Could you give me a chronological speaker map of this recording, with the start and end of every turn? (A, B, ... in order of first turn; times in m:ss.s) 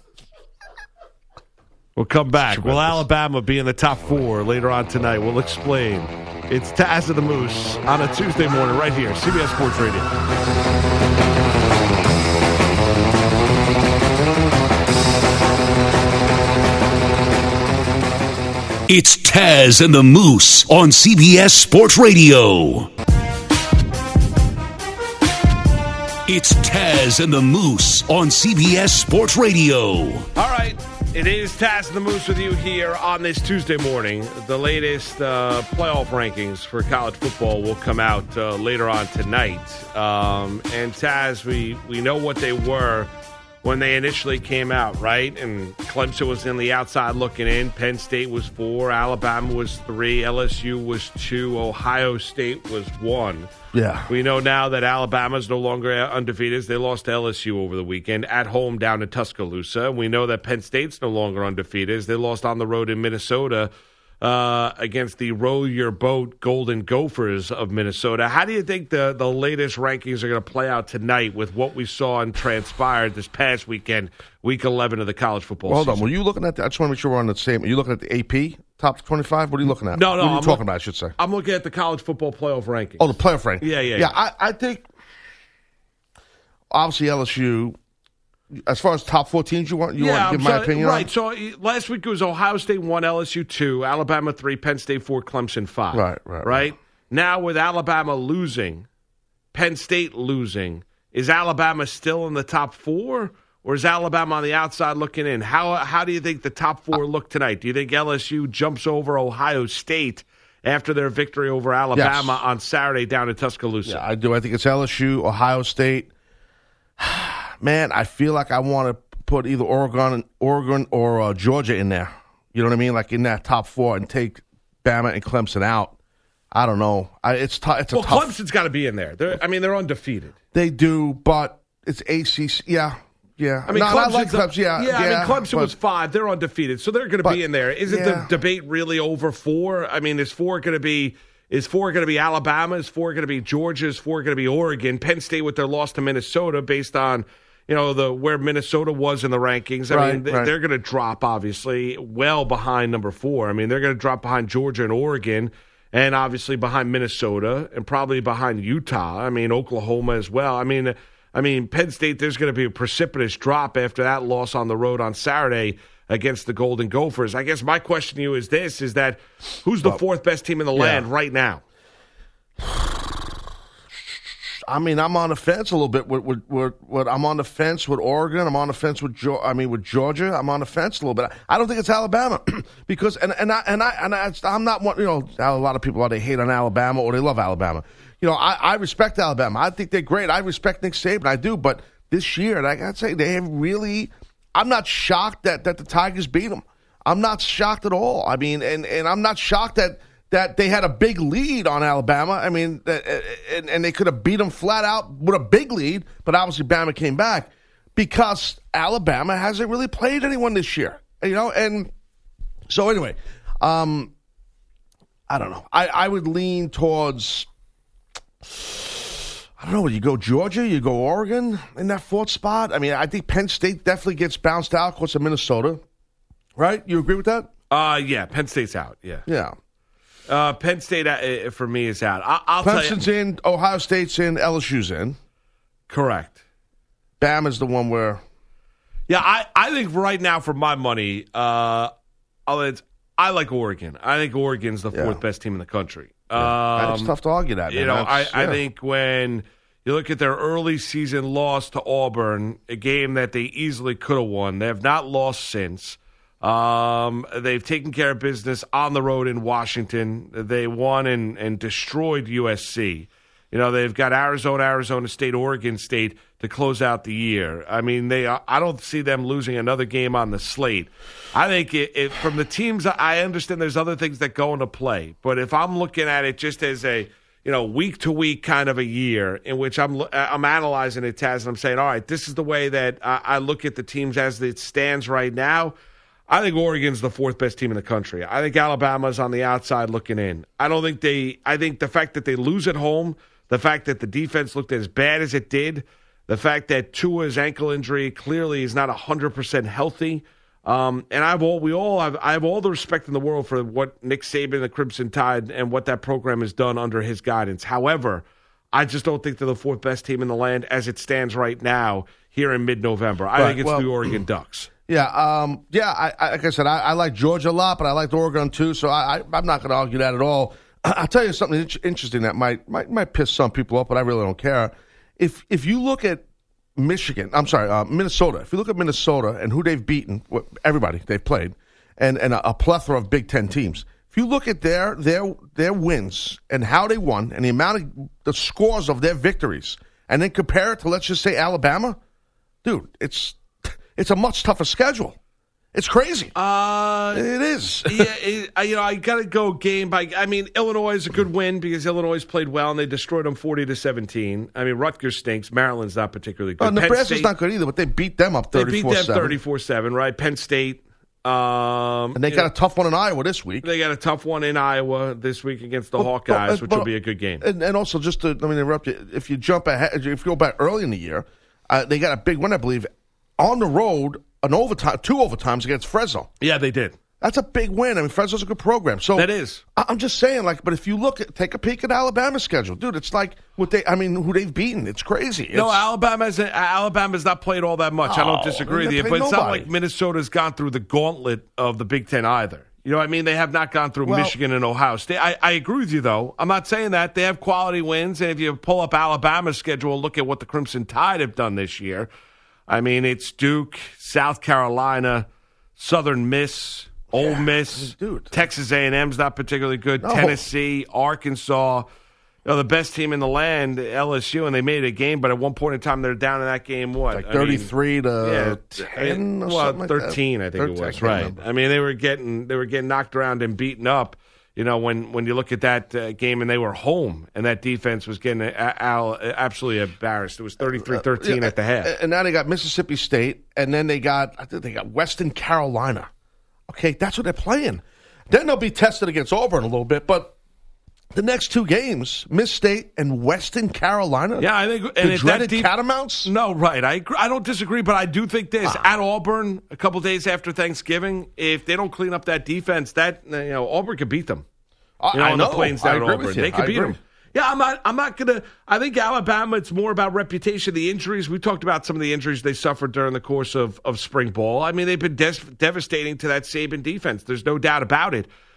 0:02.0-0:10.1 A
0:02.4-0:03.0 B
0:18.9-0:22.9 C
0:26.3-0:30.3 C
0:30.4-0:43.1 A
0:43.6-0:53.5 A
0:53.7-0:54.1 B
0:54.1-1:03.7 A
1:04.2-1:16.1 A
1:15.7-1:21.2 B
1:19.9-1:20.6 A
1:21.2-1:24.2 A
1:23.0-1:24.9 B
1:26.7-1:27.8 B
1:28.5-1:31.1 B
1:30.0-1:38.9 A
1:35.9-1:36.7 B
1:39.5-1:54.0 A
1:52.0-1:52.4 B
1:53.8-1:56.1 B
1:57.0-2:06.0 B
2:06.5-2:08.3 B
2:07.9-2:10.3 A
2:10.5-2:15.7 B
2:13.7-2:51.6 A
2:17.2-2:18.3 B
2:29.9-2:30.5 B
2:50.7-2:51.1 B
2:52.6-2:53.2 B
2:54.7-3:31.9 B
3:32.7-3:34.1 B
3:35.3-3:37.5 B
3:38.4-3:45.8 B
3:46.6-3:47.5 B
3:47.7-3:49.3 A
3:49.3-3:49.6 B
3:50.3-3:53.0 A
3:52.6-3:55.2 B
3:55.9-3:56.4 A
3:57.2-3:58.2 B
3:59.1-4:01.9 A
4:02.5-4:07.1 A
4:04.9-4:05.2 B
4:06.4-4:08.6 B
4:07.7-4:45.8 A
4:46.3-5:14.7 A
5:13.4-5:14.2 B
5:14.9-5:26.2 B
5:26.8-5:42.0 B
5:42.6-5:45.2 B
5:45.7-5:46.3 B
5:46.4-5:47.2 A
5:47.1-5:48.1 B
5:47.8-5:57.3 A
5:56.6-5:59.4 B
5:58.5-6:02.5 A
6:02.2-6:03.7 B
6:03.6-6:07.4 A
6:06.0-6:06.9 B
6:07.4-6:16.3 B
6:16.4-6:17.0 A
6:17.2-6:25.8 B
6:19.2-6:19.6 A
6:25.5-6:42.1 A
6:28.0-6:29.7 B
6:34.0-6:34.4 B
6:42.7-6:45.3 A
6:45.8-6:51.9 A
6:47.1-6:48.4 B
6:50.0-6:50.4 B
6:52.4-6:57.7 A
6:57.1-7:01.4 B
6:58.2-7:11.9 A
7:10.7-7:16.1 B
7:16.7-7:20.4 B
7:21.1-7:26.3 B
7:24.4-7:25.7 A
7:26.2-7:34.4 A
7:35.0-7:37.0 B
7:35.1-7:48.3 A